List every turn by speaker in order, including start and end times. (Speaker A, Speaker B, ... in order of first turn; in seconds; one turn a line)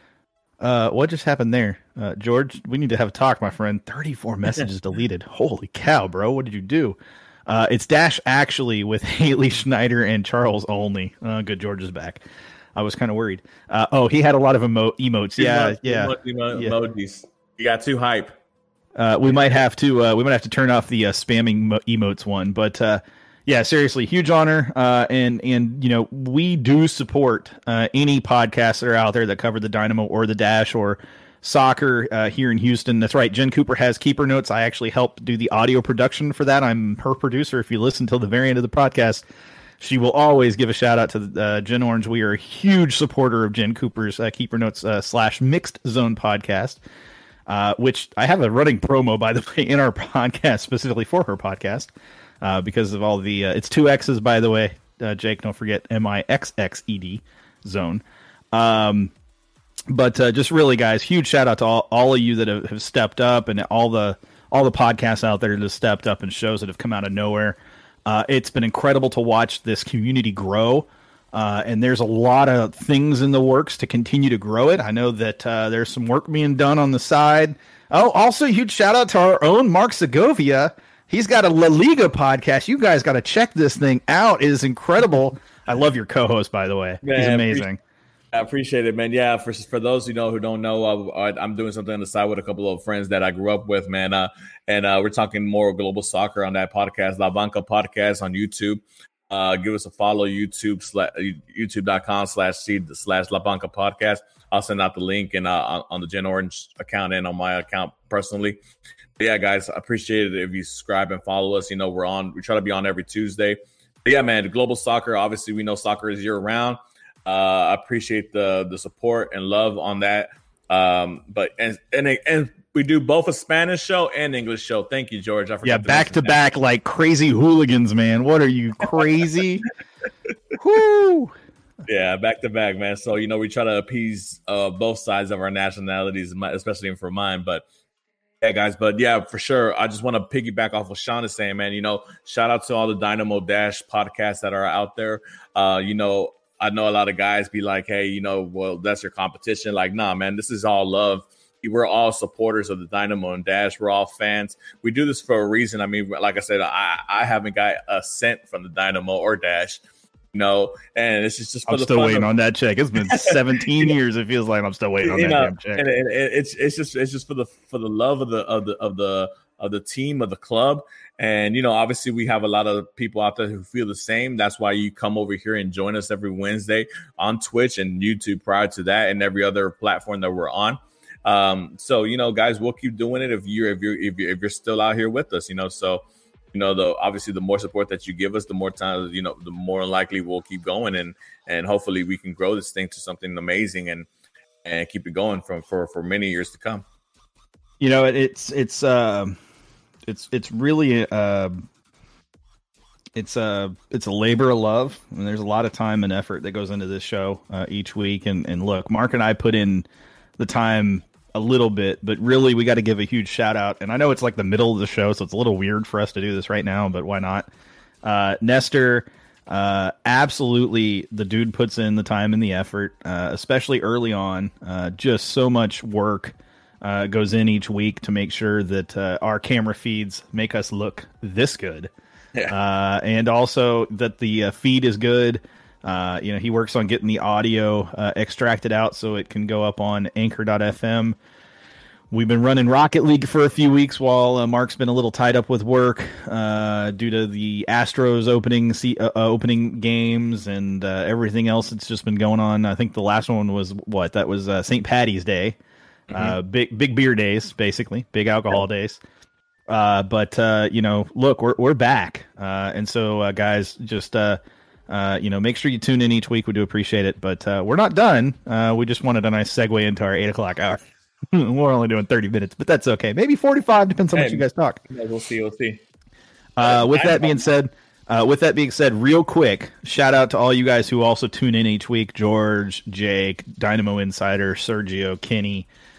Speaker A: 0.6-7.0
Speaker A: 7.5-12.2
Speaker A: 12.8-16.7
Speaker B: 15.4-18.4
Speaker A: 19.0-39.2
Speaker A: 39.8-46.8
Speaker A: 47.5-51.9
Speaker A: 52.4-59.1
Speaker A: 59.9-87.8
Speaker B: 87.0-87.7
Speaker B: 88.3-108.6
Speaker B: 109.2-126.3
Speaker A: 125.6-129.7
Speaker A: 130.6-131.3
Speaker B: 131.8-137.6
Speaker B: 138.4-159.8
Speaker B: 160.3-162.3
Speaker A: 161.7-165.8
Speaker B: 163.0-163.9
Speaker B: 165.0-194.1
Speaker B: 194.6-196.8
Speaker A: 197.8-199.4
Speaker A: 200.1-201.6
Speaker A: 203.2-209.9
Speaker A: 210.4-217.5
Speaker A: 218.0-231.9
Speaker A: 232.5-241.2
Speaker A: 242.1-255.6
Speaker B: 256.1-256.4
Speaker A: 256.1-259.0
Speaker A: 259.7-274.8
Speaker B: 274.1-275.8
Speaker A: 276.6-285.7
Speaker B: 276.6-277.4